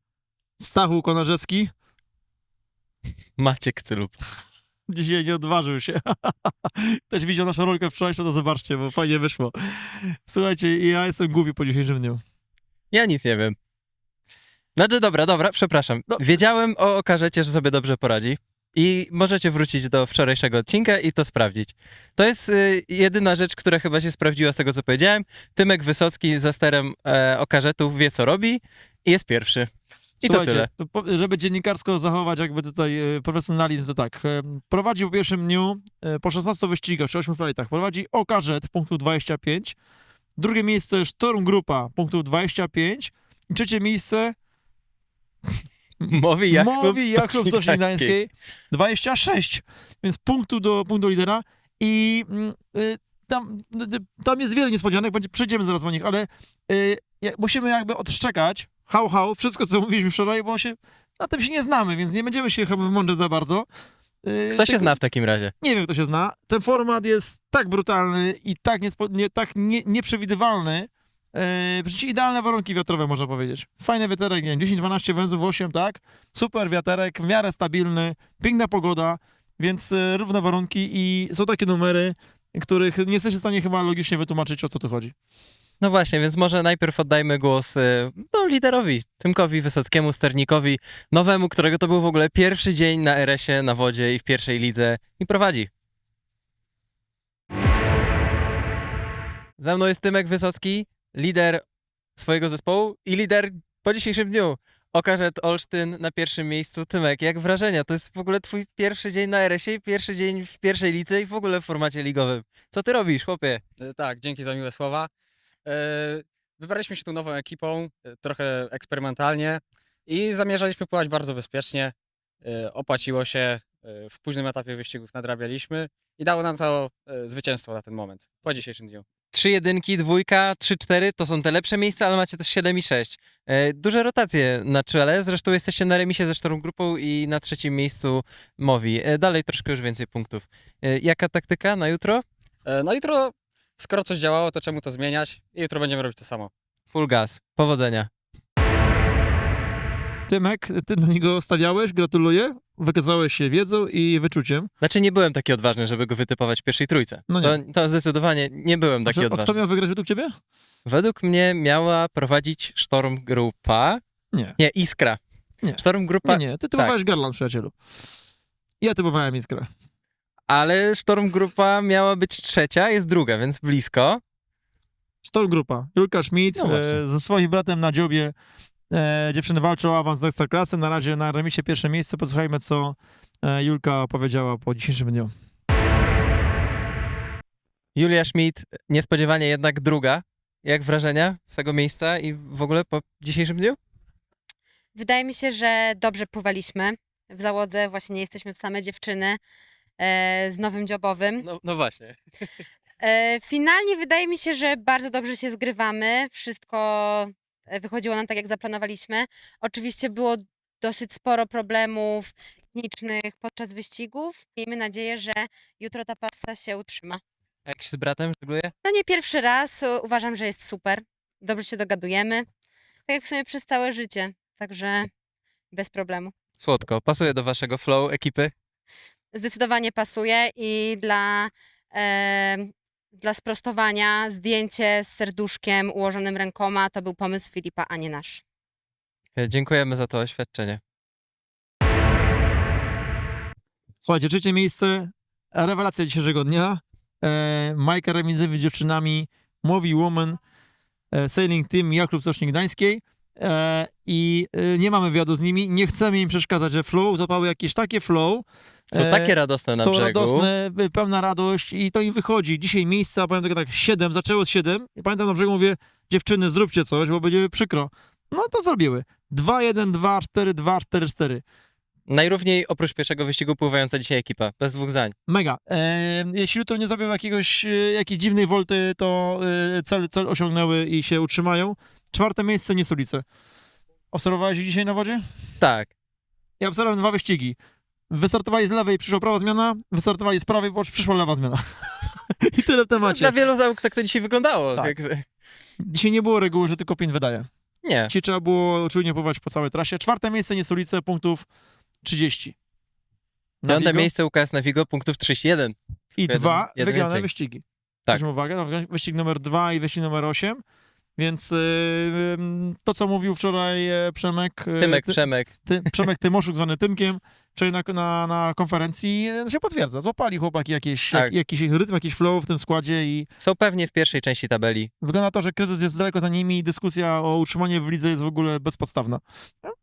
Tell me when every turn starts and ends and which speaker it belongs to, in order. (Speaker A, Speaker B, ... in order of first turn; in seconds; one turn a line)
Speaker A: 0.6-1.7
Speaker B: 3.4-4.2
Speaker A: 4.9-12.2
Speaker B: 12.9-13.6
Speaker B: 14.8-29.7
Speaker A: 16.1-16.4
Speaker A: 30.2-39.8
Speaker B: 30.3-30.7
Speaker A: 40.4-44.4
Speaker A: 46.0-63.7
Speaker B: 46.1-48.2
Speaker A: 64.2-65.0
Speaker B: 64.5-65.5
Speaker A: 65.6-85.2
Speaker B: 85.8-95.7
Speaker B: 99.6-101.6
Speaker B: 102.2-113.6
Speaker C: 113.8-115.1
Speaker C: 115.7-129.1
Speaker B: 129.3-142.2
Speaker C: 142.7-146.5
Speaker B: 146.9-148.1
Speaker A: 150.3-154.7
Speaker B: 154.8-159.6
Speaker A: 157.3-157.6
Speaker A: 159.1-160.4
Speaker B: 160.9-164.0
Speaker B: 164.6-165.2
Speaker A: 165.6-167.8
Speaker B: 165.8-166.9
Speaker A: 168.8-169.7
Speaker B: 170.5-174.2
Speaker A: 175.2-178.3
Speaker B: 176.6-177.0
Speaker A: 178.9-185.3
Speaker B: 187.9-193.8
Speaker D: 194.9-199.4
Speaker D: 200.0-201.4
Speaker B: 201.4-202.2
Speaker D: 203.0-217.2
Speaker B: 217.7-218.7
Speaker D: 218.8-222.5
Speaker D: 223.1-225.1
Speaker D: 225.7-226.3
Speaker B: 226.6-228.5
Speaker D: 229.3-238.4
Speaker B: 239.4-240.8
Speaker A: 244.0-250.4
Speaker A: 251.1-271.4
Speaker B: 258.9-260.5
Speaker B: 272.1-275.1
Speaker A: 275.3-283.2
Speaker A: 284.1-285.3
Speaker B: 285.6-285.9
Speaker A: 286.6-287.6
Speaker A: 288.1-293.4
Speaker B: 293.1-295.2
Speaker A: 295.8-297.5
Speaker B: 297.8-298.1
Speaker A: 298.1-301.5
Speaker A: 302.0-302.6
Speaker A: 303.6-304.1
Speaker B: 303.7-307.3
Speaker A: 306.2-310.6
Speaker A: 311.2-323.3
Speaker B: 314.8-315.5
Speaker B: 323.4-324.9
Speaker A: 325.0-329.8